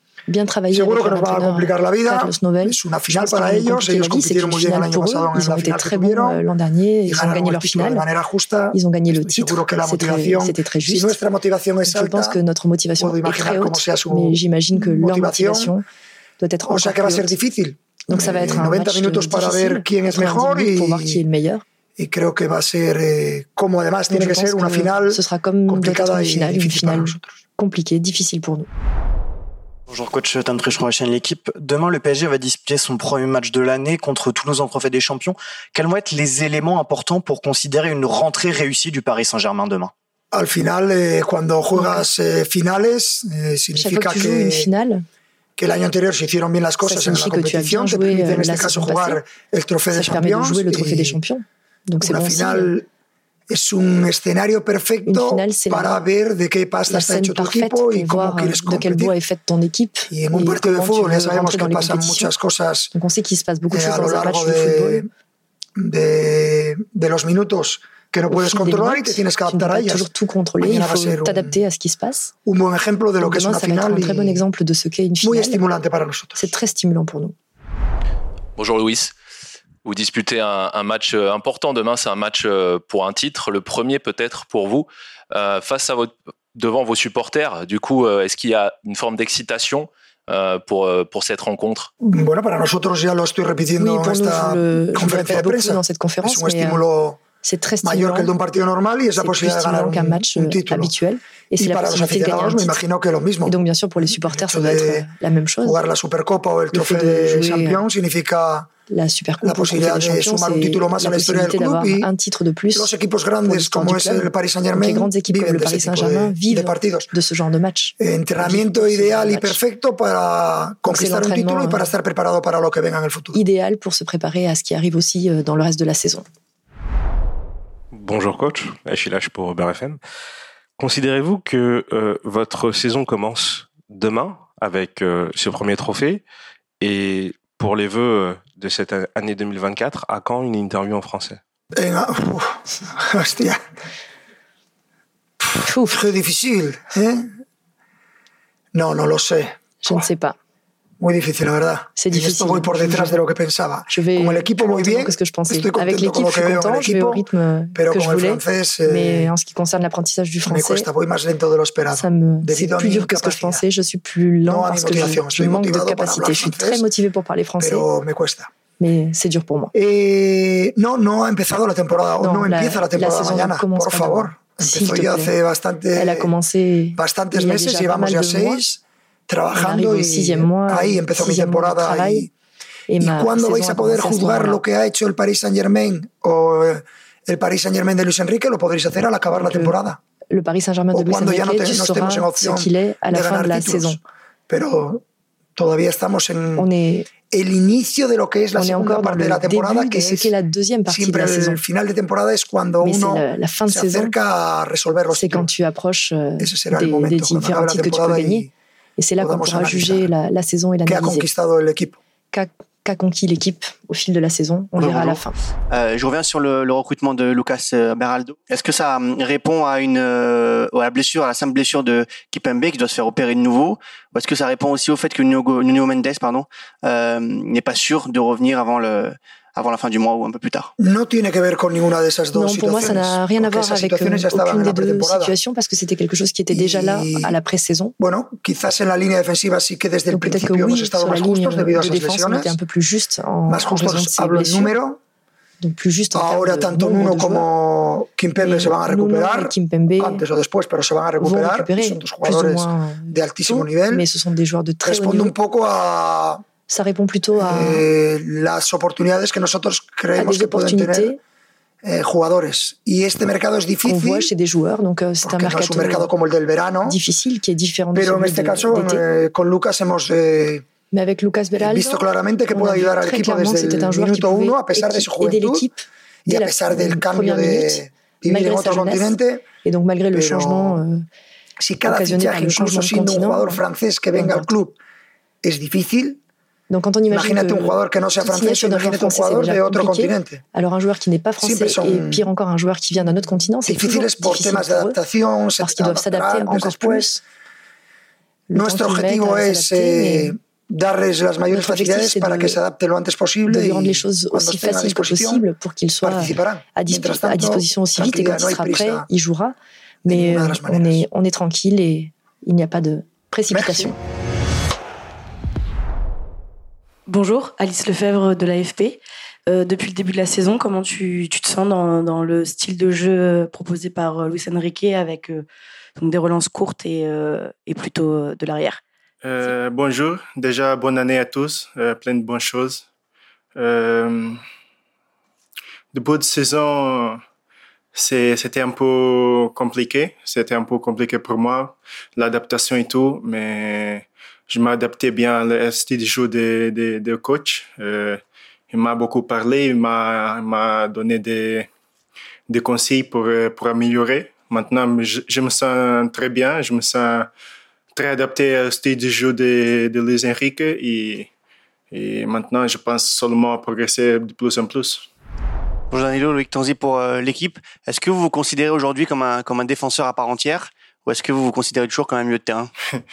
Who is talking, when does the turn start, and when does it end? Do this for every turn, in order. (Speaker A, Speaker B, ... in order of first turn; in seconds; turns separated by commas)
Speaker A: 0.3-8.1, Speaker B: 0.7-6.4, Speaker B: 7.0-12.4, Speaker A: 8.7-11.2, Speaker A: 11.8-15.8, Speaker B: 13.0-15.7, Speaker A: 16.4-17.3, Speaker B: 16.7-21.2, Speaker A: 18.1-21.6, Speaker B: 22.0-27.3, Speaker A: 24.1-28.7, Speaker C: 29.9-39.9, Speaker B: 40.3-44.7, Speaker A: 41.7-42.0, Speaker A: 43.7-45.0, Speaker B: 45.6-51.2, Speaker A: 46.8-49.2, Speaker A: 49.9-52.7, Speaker B: 52.0-52.9, Speaker B: 53.5-59.1, Speaker A: 55.0-56.0, Speaker A: 56.9-62.3, Speaker B: 60.1-62.9, Speaker A: 62.9-65.0, Speaker B: 63.7-65.1, Speaker B: 65.8-71.6, Speaker A: 68.3-72.3, Speaker B: 72.4-74.4, Speaker A: 73.2-75.6, Speaker B: 75.2-76.5, Speaker A: 76.3-77.3, Speaker D: 78.5-79.1, Speaker D: 79.8-91.9, Speaker B: 92.0-97.2, Speaker A: 93.8-96.8, Speaker A: 97.4-98.3, Speaker B: 97.8-100.9, Speaker A: 99.2-102.8, Speaker B: 101.6-105.0, Speaker A: 103.5-105.8, Speaker B: 105.6-108.7, Speaker A: 106.7-107.8, Speaker A: 108.9-112.9, Speaker B: 109.4-112.1, Speaker B: 112.7-117.1, Speaker A: 113.4-119.6, Speaker B: 118.0-123.4, Speaker A: 120.8-121.9, Speaker A: 123.3-126.2, Speaker E: 127.9-130.0, Speaker E: 130.8-136.2, Speaker E: 136.8-141.4, Speaker B: 141.7-143.6, Speaker A: 145.6-146.0, Speaker B: 145.8-147.3, Speaker B: 148.7-150.0, Speaker A: 149.8-150.3, Speaker B: 151.0-159.3, Speaker A: 152.0-153.2, Speaker A: 153.9-160.9, Speaker B: 160.4-163.6, Speaker A: 161.9-167.9, Speaker B: 164.4-166.8, Speaker B: 167.6-168.5, Speaker A: 168.8-169.7, Speaker B: 169.7-176.3, Speaker A: 172.2-175.3, Speaker A: 175.9-178.6, Speaker B: 176.9-182.3, Speaker A: 179.5-182.3, Speaker A: 182.9-184.6, Speaker B: 183.0-190.0, Speaker A: 189.3-189.8, Speaker A: 190.3-194.0, Speaker B: 190.9-195.0, Speaker B: 195.6-196.7, Speaker A: 196.6-197.1, Speaker B: 197.3-200.3, Speaker A: 198.6-201.6, Speaker B: 200.9-205.5, Speaker A: 202.8-204.1, Speaker A: 205.1-211.2, Speaker B: 206.4-208.5, Speaker B: 209.2-210.1, Speaker B: 210.8-212.0, Speaker A: 212.3-215.3, Speaker F: 214.8-230.7, Speaker B: 230.8-235.3, Speaker A: 232.3-237.9, Speaker B: 236.5-237.4, Speaker B: 238.0-242.6, Speaker A: 240.1-244.7, Speaker B: 243.5-245.0, Speaker A: 245.6-247.5, Speaker B: 246.1-254.1, Speaker A: 248.4-250.2, Speaker A: 251.2-255.3, Speaker B: 254.8-256.4, Speaker A: 256.7-257.8, Speaker B: 257.4-261.1, Speaker A: 260.1-261.2, Speaker B: 261.8-264.3, Speaker A: 263.8-266.1, Speaker B: 265.2-267.0, Speaker A: 266.9-269.0, Speaker B: 267.9-270.6, Speaker A: 270.9-281.0, Speaker B: 271.6-275.7, Speaker B: 276.2-279.4, Speaker B: 280.1-280.8, Speaker B: 281.6-284.8, Speaker A: 281.8-283.6, Speaker A: 284.1-284.5, Speaker B: 285.4-286.2, Speaker A: 286.7-295.0, Speaker B: 287.1-290.4, Speaker B: 291.4-292.3, Speaker B: 293.1-297.1, Speaker A: 295.6-297.2, Speaker A: 298.5-300.3, Speaker B: 298.5-305.4, Speaker A: 301.5-302.6, Speaker A: 303.5-313.9, Speaker B: 306.0-309.1, Speaker B: 310.1-311.0, Speaker B: 313.5-313.9, Speaker G: 317.1-325.4, Speaker G: 326.0-328.8, Speaker H: 329.2-332.8, Speaker H: 333.6-334.4, Speaker H: 335.9-337.2, Speaker H: 337.9-351.7, Speaker H: 352.5-357.3, Speaker H: 357.9-361.3, Speaker H: 361.9-365.0, Speaker F: 365.9-372.7